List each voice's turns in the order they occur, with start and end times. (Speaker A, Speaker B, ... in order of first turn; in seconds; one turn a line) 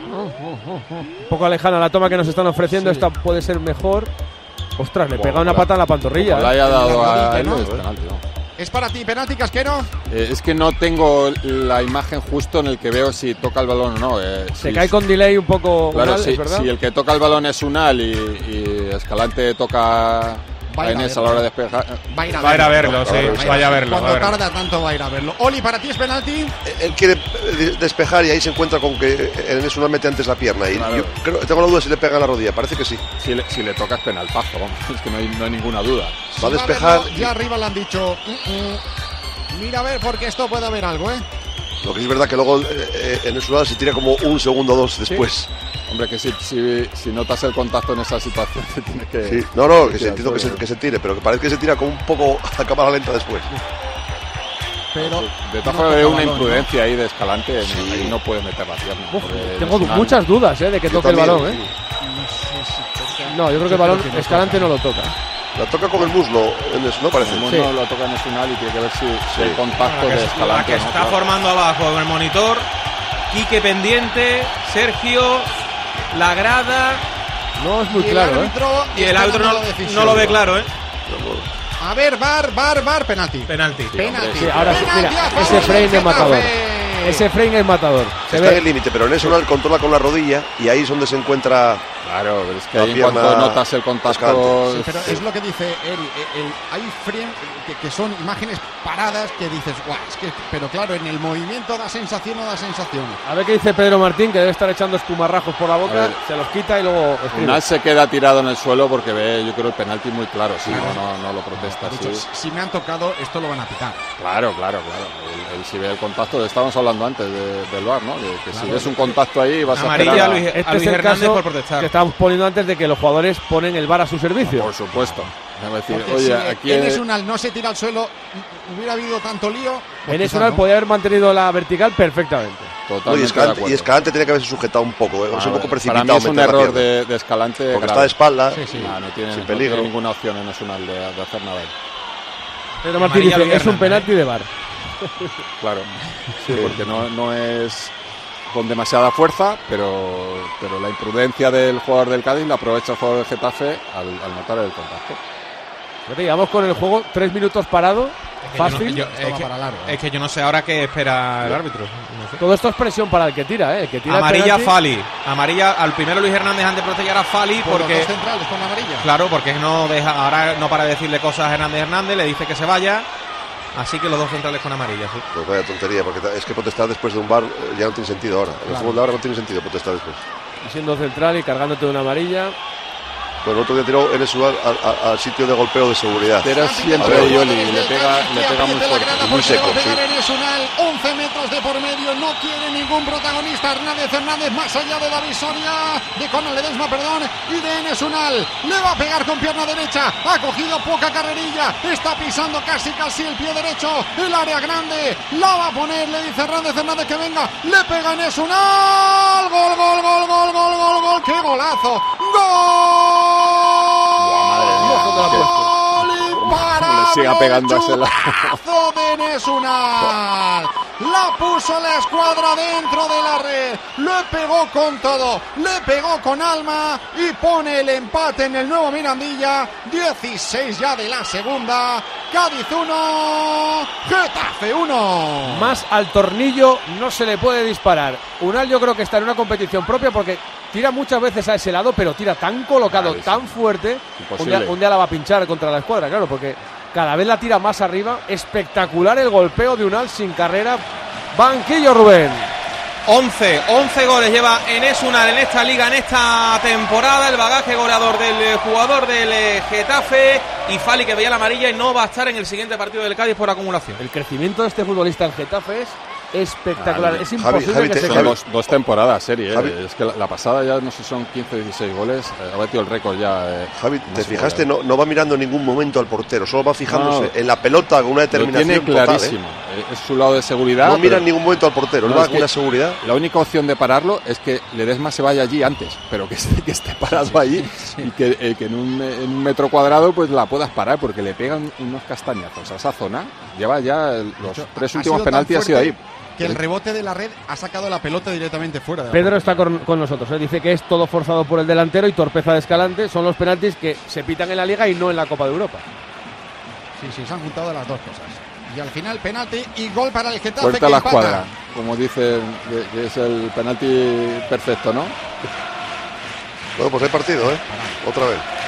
Speaker A: 0.4-4.1
Speaker B: 2.7-3.1
Speaker A: 4.8-6.5
Speaker B: 5.1-8.2
Speaker C: 6.6-7.7
Speaker C: 8.6-9.9
Speaker B: 10.1-14.9
Speaker A: 14.6-16.7
Speaker B: 15.9-23.4
Speaker C: 20.7-21.5
Speaker C: 22.1-26.6
Speaker D: 22.3-24.4
Speaker E: 23.1-23.6
Speaker E: 26.6-33.0
Speaker B: 30.7-31.1
Speaker B: 33.2-36.2
Speaker C: 36.3-38.8
Speaker E: 36.4-37.3
Speaker C: 39.5-41.2
Speaker E: 41.8-45.5
Speaker B: 45.9-50.6
Speaker E: 49.2-53.5
Speaker C: 54.9-56.7
Speaker B: 55.0-60.2
Speaker E: 57.7-58.2
Speaker A: 59.1-61.6
Speaker E: 60.8-61.7
Speaker C: 61.9-64.7
Speaker A: 63.2-65.2
Speaker E: 65.5-67.5
Speaker B: 67.2-71.2
Speaker A: 67.5-67.7
Speaker E: 69.3-69.6
Speaker D: 69.8-72.7
Speaker D: 73.3-75.5
Speaker D: 76.1-77.0
Speaker A: 77.6-78.5
Speaker C: 77.9-80.5
Speaker D: 78.9-80.7
Speaker E: 81.1-81.5
Speaker C: 81.8-87.2
Speaker D: 83.5-83.9
Speaker B: 83.9-86.4
Speaker A: 84.3-88.6
Speaker E: 88.3-91.8
Speaker B: 92.0-95.2
Speaker E: 92.7-94.7
Speaker C: 94.7-103.2
Speaker A: 103.2-107.6
Speaker B: 105.8-106.2
Speaker B: 107.3-112.2
Speaker C: 110.6-114.0
Speaker B: 114.2-120.5
Speaker C: 118.5-119.2
Speaker D: 119.7-121.9
Speaker C: 119.7-120.3
Speaker A: 120.0-124.7
Speaker B: 124.4-127.0
Speaker C: 125.0-125.2
Speaker C: 125.9-130.6
Speaker A: 130.1-132.7
Speaker B: 132.9-133.9
Speaker E: 133.0-136.9
Speaker B: 135.3-138.1
Speaker E: 137.7-139.9
Speaker C: 138.5-138.9
Speaker B: 138.7-141.7
Speaker A: 142.8-144.5
Speaker D: 142.9-144.1
Speaker A: 145.0-145.3
Speaker B: 145.6-147.9
Speaker B: 148.5-155.2
Speaker A: 156.1-159.0
Speaker D: 158.4-162.4
Speaker C: 158.6-160.0
Speaker A: 162.4-164.7
Speaker D: 164.1-168.1
Speaker C: 167.6-169.1
Speaker D: 169.0-173.1
Speaker D: 173.7-175.2
Speaker E: 175.3-180.2
Speaker C: 178.7-179.0
Speaker A: 180.6-182.6
Speaker E: 183.4-187.4
Speaker B: 186.4-189.8
Speaker C: 186.5-235.8
Speaker E: 189.3-190.0
Speaker B: 214.2-218.6
Speaker A: 214.8-215.7
Speaker A: 235.4-252.5
Speaker B: 242.9-243.5
Speaker B: 244.2-244.8
Speaker D: 253.1-264.0
Speaker A: 264.0-268.3
Speaker B: 266.8-267.3
Speaker E: 267.4-268.4
Speaker B: 268.0-274.7
Speaker E: 269.5-269.8
Speaker E: 273.7-279.4
Speaker B: 276.9-277.3
Speaker B: 278.3-281.2
Speaker E: 280.8-283.0
Speaker B: 282.0-282.5
Speaker B: 283.0-296.6
Speaker C: 287.1-288.1
Speaker C: 294.4-299.7
Speaker A: 299.1-305.8
Speaker C: 307.0-311.5
Speaker B: 310.6-315.1
Speaker E: 316.8-318.4
Speaker C: 317.4-318.0